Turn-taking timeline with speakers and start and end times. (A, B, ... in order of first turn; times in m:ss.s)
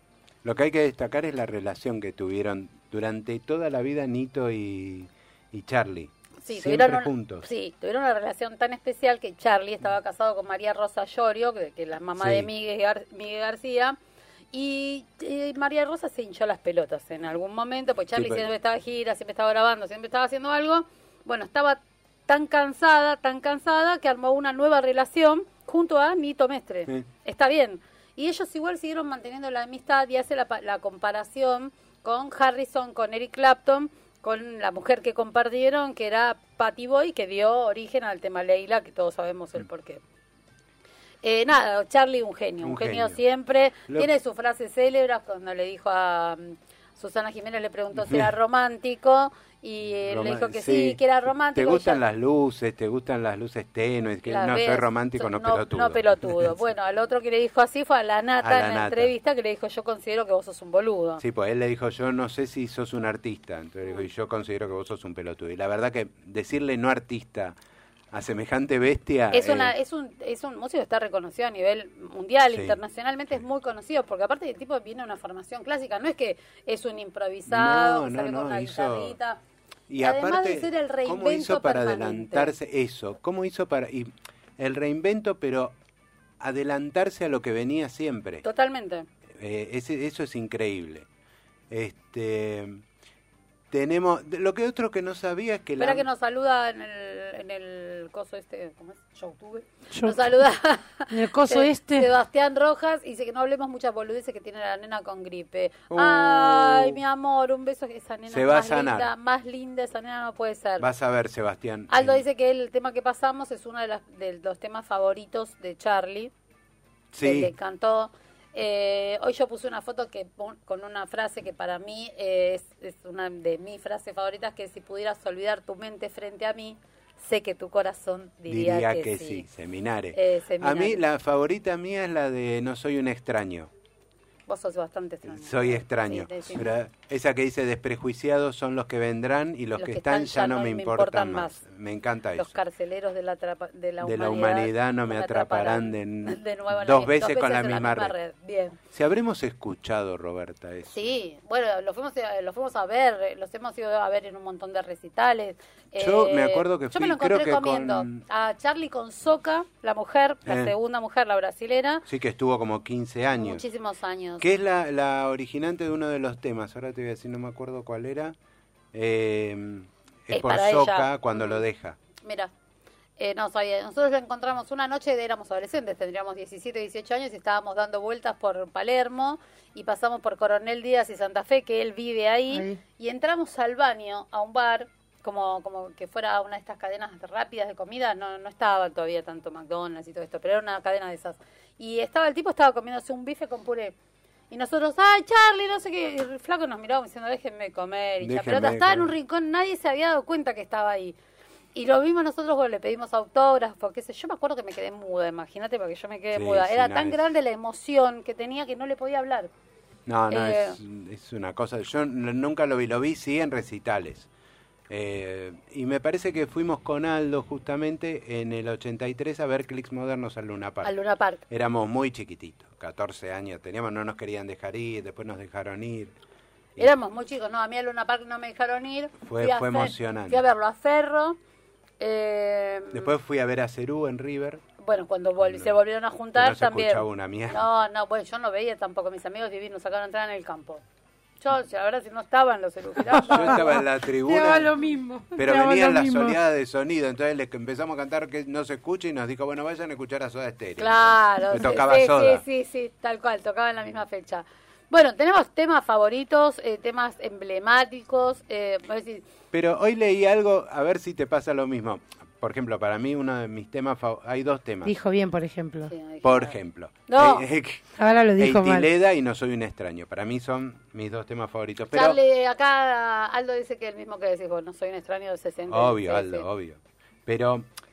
0:00.4-0:07.5 A
0:06.4-0:14.0 B
0:12.2-0:12.5 A
0:14.5-0:40.0 B
0:18.2-0:18.5 A
0:41.2-0:52.0 B
0:42.6-0:43.2 A
0:48.0-0:48.3 A
0:50.1-0:51.0 A
0:51.5-0:56.5 A
0:54.2-1:01.2 B
0:58.4-0:59.1 A
1:01.2-1:07.6 A
1:08.1-1:09.8 A
1:09.3-1:19.4 B
1:12.5-1:12.8 A
1:17.5-1:19.2 A
1:19.9-1:25.8 A
1:20.0-1:22.5 B
1:26.4-1:28.4 A
1:28.4-1:29.1 B
1:29.4-1:31.1 A
1:31.7-1:32.8 A
1:33.7-1:36.1 A
1:35.8-1:50.9 B
1:39.9-1:40.4 C
1:41.1-1:42.1 C
1:45.9-1:47.0 A
1:48.3-1:49.1 A
1:50.8-1:52.2 A
1:51.9-1:56.3 B
1:57.1-1:57.5 A
1:57.2-2:09.5 B
2:08.5-2:13.7 A
2:10.1-2:11.0 B
2:14.5-2:16.7 B
2:15.3-2:22.6 A
2:19.8-2:21.6 B
2:22.4-2:28.8 B
2:24.0-2:28.2 A
2:28.9-2:31.1 A
2:30.9-2:42.1 B
2:36.0-2:38.2 A
2:40.5-2:40.7 A
2:42.1-2:43.6 A
2:43.4-2:44.5 B
2:44.4-2:48.4 A
2:48.9-2:52.0 A
2:50.3-2:51.6 B
2:52.2-2:52.5 B
2:53.2-3:14.0 B
3:02.5-3:02.8 C
3:14.5-3:21.2 B
3:18.2-3:19.1 A
3:21.8-3:29.5 B
3:26.3-3:27.2 A
3:30.1-3:34.3 A
3:30.3-3:30.8 B
3:34.9-3:41.0 A
3:40.8-3:41.4 B
3:41.5-3:46.2 A
3:46.8-3:51.4 B
3:49.2-3:50.4 A
3:52.0-3:53.1 B
3:52.9-3:54.6 A
3:54.8-4:00.8 B
3:55.4-3:55.8 A
3:56.3-3:57.7 A
4:01.4-4:03.8 B
4:03.1-4:06.4 C
4:03.2-4:04.7 A
4:05.4-4:12.4 A
4:10.8-4:19.2 B
4:19.5-4:25.0 A
4:24.8-4:25.9 C
4:25.9-4:27.5 B
4:26.2-4:32.2 A
4:28.0-4:28.9 C
4:31.9-4:36.5 B
4:35.7-4:37.7 A